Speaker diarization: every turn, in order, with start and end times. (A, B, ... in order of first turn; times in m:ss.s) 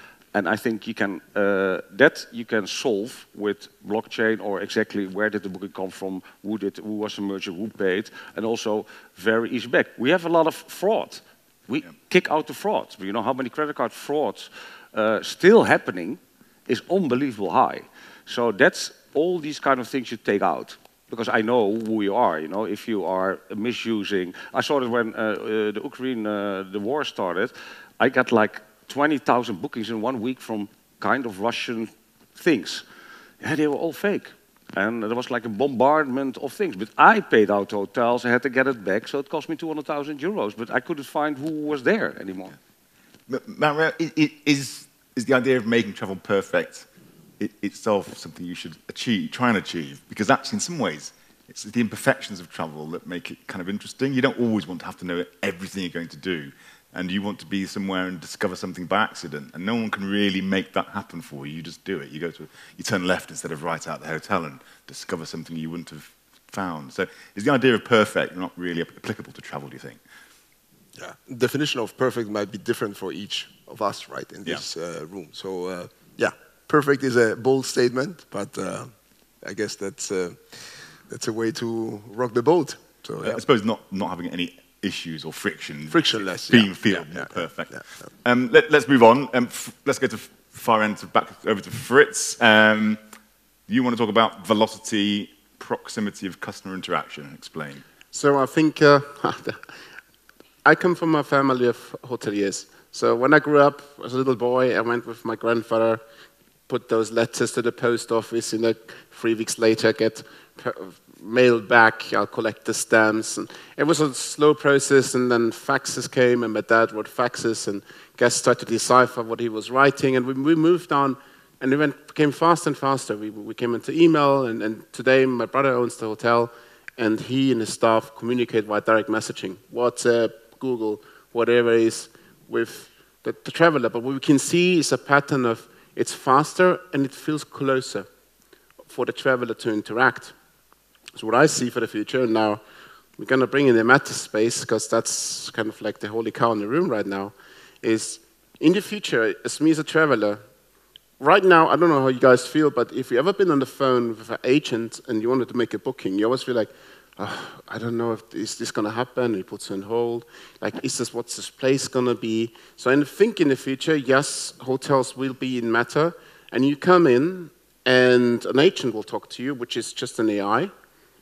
0:00.3-0:32.8 A
0:33.4-0:42.6 A
0:43.3-0:46.9 B
0:47.4-1:10.0 B
1:11.0-1:23.4 C
1:23.2-1:33.0 B
1:25.9-1:27.8 C
1:33.7-1:37.8 B
1:38.1-1:39.6 D
1:40.6-1:46.0 D
1:46.7-2:18.1 D
2:18.9-2:20.4 D
2:21.2-2:22.6 D
2:23.2-2:30.4 D
2:31.2-2:50.7 D